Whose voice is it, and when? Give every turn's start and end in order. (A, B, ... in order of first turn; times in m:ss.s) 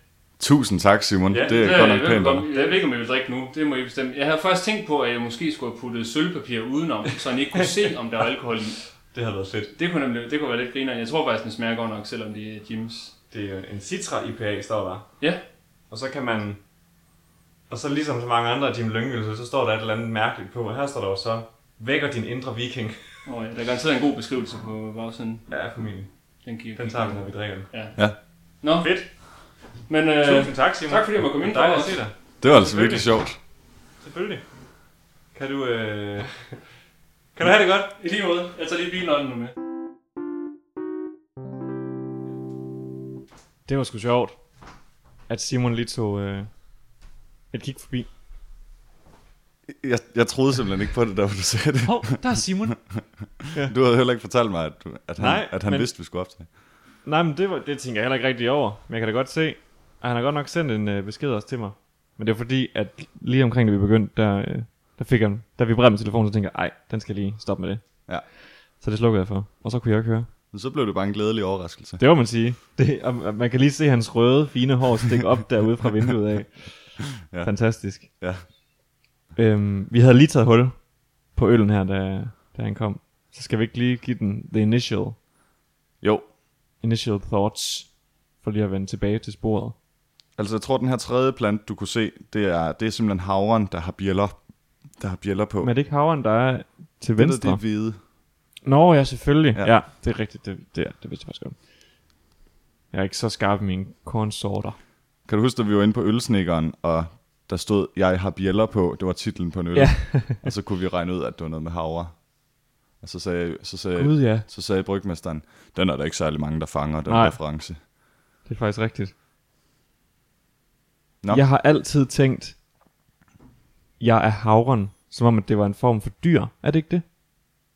0:00.4-0:02.4 A
0:01.3-0:01.7 B
0:01.5-0:08.8 C
0:09.1-0:09.7 B
0:09.8-0:13.1 C
0:13.3-0:15.0 B
0:15.9-0:16.6 B
0:17.7-0:23.2 B
0:23.2-0:25.6 C
0:25.5-0:26.1 B
0:26.4-0:29.2 C
0:26.7-0:27.7 B
0:28.8-0:29.1 B
0:29.9-0:32.0 C
0:30.2-0:33.0 B
0:32.4-0:33.4 A
0:34.0-0:34.4 B
0:35.3-0:36.6 B
0:37.3-0:37.9 B
0:38.0-0:39.5 C
0:43.7-0:44.4 B
0:45.3-0:46.5 B
0:47.5-0:48.1 B
0:49.7-0:52.2 A
0:51.8-0:52.8 B
0:53.5-0:56.5 A
0:55.2-0:55.9 B
0:57.0-1:07.8 B
1:08.8-1:10.3 B
1:10.5-1:12.0 A
1:12.0-1:18.1 B
1:17.2-1:17.5 A
1:18.0-1:18.4 A
1:19.4-1:25.2 B
1:26.0-1:26.3 A
1:26.8-1:29.8 B
1:30.4-1:34.4 A
1:35.0-1:35.7 A
1:35.6-1:37.6 B
1:37.2-1:38.0 A
1:38.6-1:41.6 B
1:42.9-1:44.8 B
1:45.2-1:52.3 A
1:49.7-1:50.4 B
1:53.0-1:57.8 A
1:54.0-1:54.4 B
1:57.0-1:57.4 B
1:58.4-1:59.1 B
2:01.3-2:02.6 B
2:04.0-2:07.0 B